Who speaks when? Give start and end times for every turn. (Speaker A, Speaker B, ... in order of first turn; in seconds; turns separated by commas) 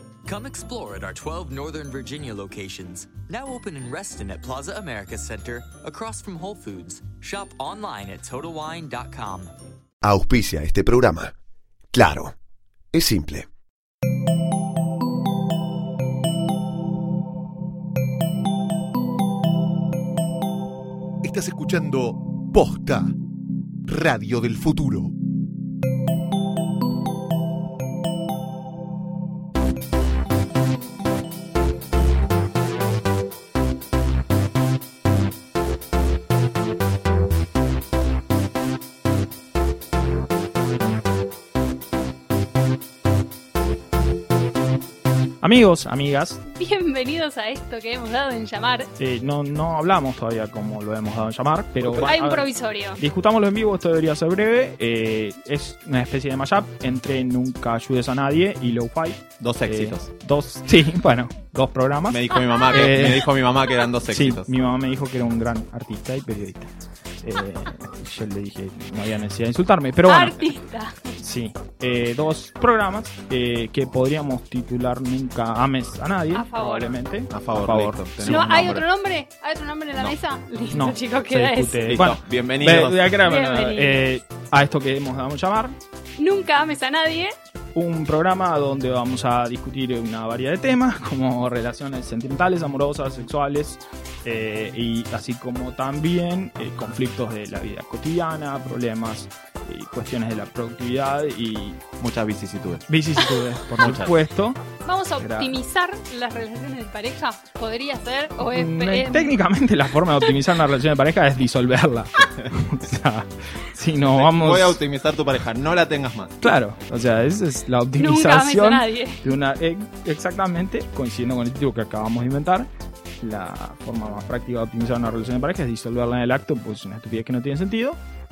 Speaker A: 0.2-9.5, Speaker B: 10.0-11.3, Speaker B: 11.9-12.3, Speaker B: 12.9-13.5, Speaker B: 21.2-23.1, Speaker B: 23.8-25.1, Speaker C: 45.4-46.4, Speaker D: 46.4-48.9, Speaker C: 49.0-63.3, Speaker E: 51.8-52.1, Speaker D: 52.0-53.0, Speaker E: 59.4-60.1, Speaker E: 62.1-64.5, Speaker C: 64.1-66.7, Speaker C: 67.2-70.5, Speaker D: 70.0-71.0, Speaker C: 71.2-78.5, Speaker D: 76.3-77.0, Speaker E: 77.3-78.8, Speaker D: 78.2-82.0, Speaker C: 80.7-85.8, Speaker E: 81.9-83.1, Speaker D: 83.2-84.1, Speaker D: 86.2-87.3, Speaker C: 87.7-101.8, Speaker E: 102.0-102.9, Speaker C: 102.9-104.6, Speaker E: 103.8-104.1, Speaker D: 104.8-109.4, Speaker C: 105.2-105.5, Speaker C: 108.4-114.8, Speaker E: 114.1-116.4, Speaker C: 116.4-122.7, Speaker D: 118.0-119.3, Speaker C: 123.2-128.0